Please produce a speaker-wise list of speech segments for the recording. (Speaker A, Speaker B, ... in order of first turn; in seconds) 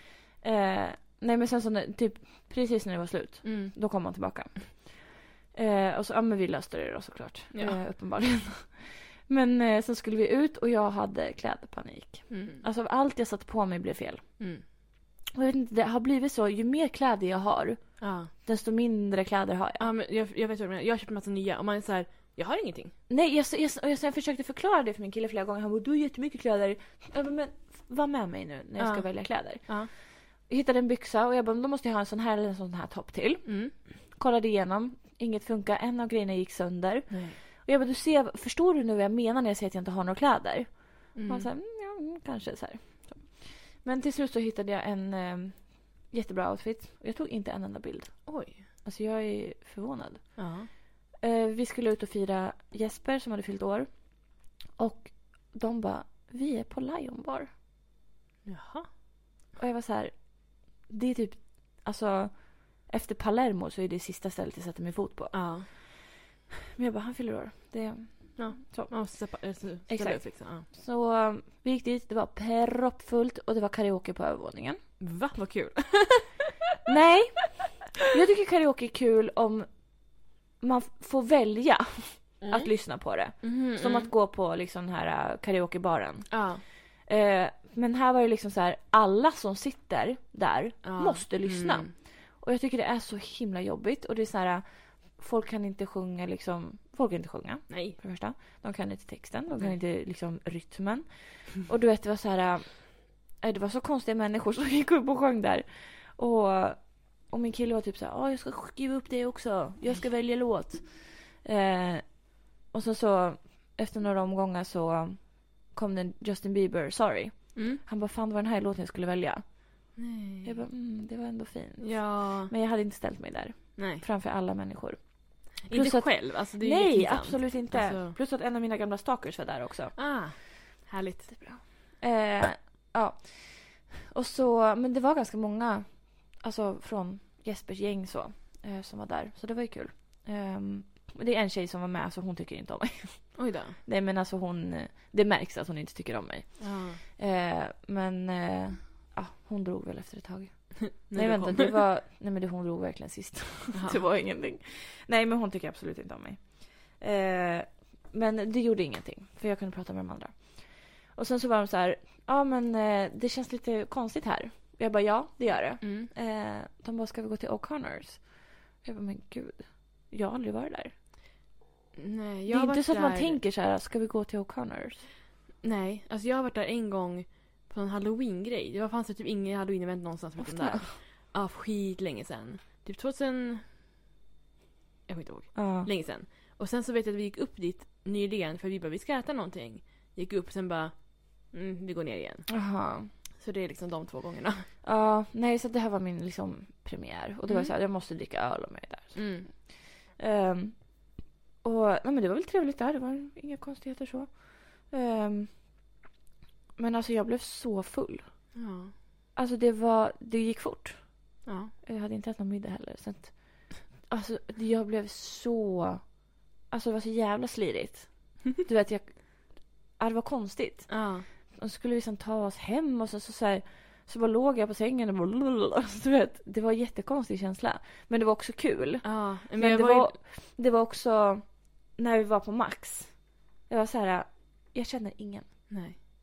Speaker A: 0.4-14.3, 15.3-19.9, 23.1-57.5, 59.6-65.9, 66.7-74.8, 76.8-119.8, 120.4-130.4, 131.3-170.9, 172.5-175.1, 180.4-180.9, 185.5-185.9, 192.5-193.1, 194.8-205.8, 206.8-208.6, 209.3-235.7
Speaker B: 3.4-3.7, 7.5-7.8, 12.3-12.6, 14.4-14.6, 18.0-18.3, 19.8-22.9, 28.8-29.9, 33.4-33.7, 37.1-37.4, 41.1-41.5, 48.2-48.6, 50.4-50.7, 58.4-59.0, 65.3-65.7, 68.4-70.7, 75.0-76.4, 82.4-84.1, 86.3-86.6, 90.8-91.9, 97.7-98.0, 117.5-117.8, 120.0-120.6, 121.8-122.5, 123.8-124.0, 125.6-128.2, 129.9-131.4, 143.3-143.8, 146.6-147.0, 151.0-151.7, 153.7-154.0, 165.5-166.1, 171.9-173.4, 175.6-183.7, 185.1-192.5, 193.3-194.7, 197.5-197.7, 199.1-199.5, 208.5-208.9, 211.4-211.7, 220.9-221.3, 229.0-230.1, 235.7-236.0